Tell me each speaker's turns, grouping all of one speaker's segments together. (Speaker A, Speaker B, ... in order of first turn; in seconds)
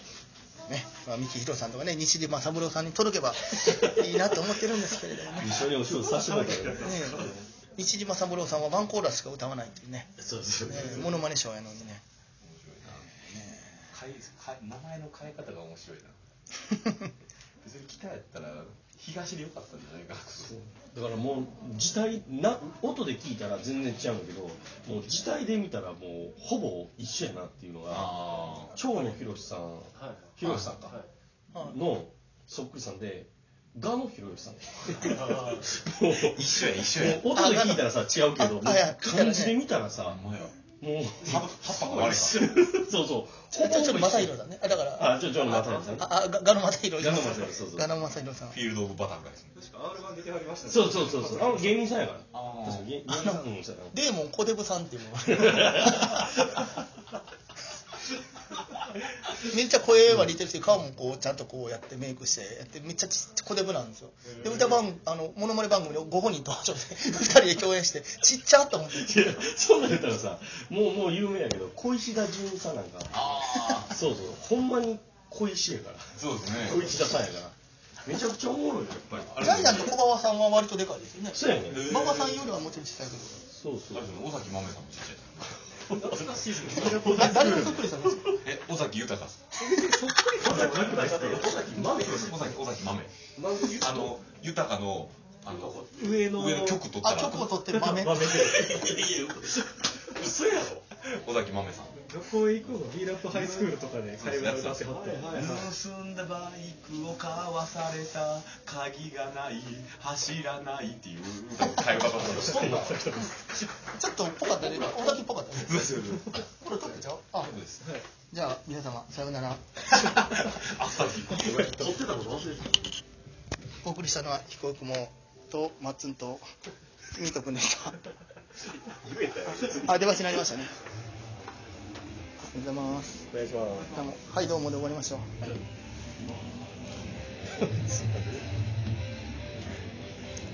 Speaker A: 0.7-5.7, 6.8-12.0, 13.1-13.9, 16.6-17.0, 37.2-39.6, 43.5-48.6, 53.0-56.4, 59.3-69.2, 79.4-83.4, 86.6-88.4, 97.0-98.5, 113.7-117.6, 118.3-119.8, 123.8-126.4, 127.1-128.0, 129.6-130.7, 132.4-133.2, 133.8-135.5
Speaker B: 5.3-7.3, 10.2-11.3, 20.4-31.0, 31.5-40.2, 40.8-46.2, 47.0-47.9, 50.6-54.0, 55.5-56.3, 68.9-79.8, 81.3-82.1, 83.5-84.1, 86.7-87.8, 90.3-92.6, 93.3-94.1, 95.7-96.8, 97.9-100.8, 112.0-113.4, 121.4-122.9, 128.8-130.4, 133.3-134.0, 137.6-138.2
Speaker C: 5.9-7.4, 30.0-30.2, 35.0-35.6, 41.7-42.3, 45.3-46.0, 49.5-51.8, 64.3-64.8, 85.9-88.0, 89.6-91.9, 96.1-96.6, 98.0-98.6, 102.0-105.6
Speaker D: 12.4-16.2, 17.6-20.6, 27.9-28.8, 30.4-30.9, 36.1-37.3, 40.0-40.6, 41.2-42.6, 48.5-49.6, 52.3-52.9, 73.1-74.0, 76.1-76.9, 79.2-80.0, 81.6-82.4, 83.9-86.1, 88.3-89.5, 91.8-97.6, 101.0-102.0, 103.3-113.3, 115.6-116.4, 117.4-117.9, 120.0-122.0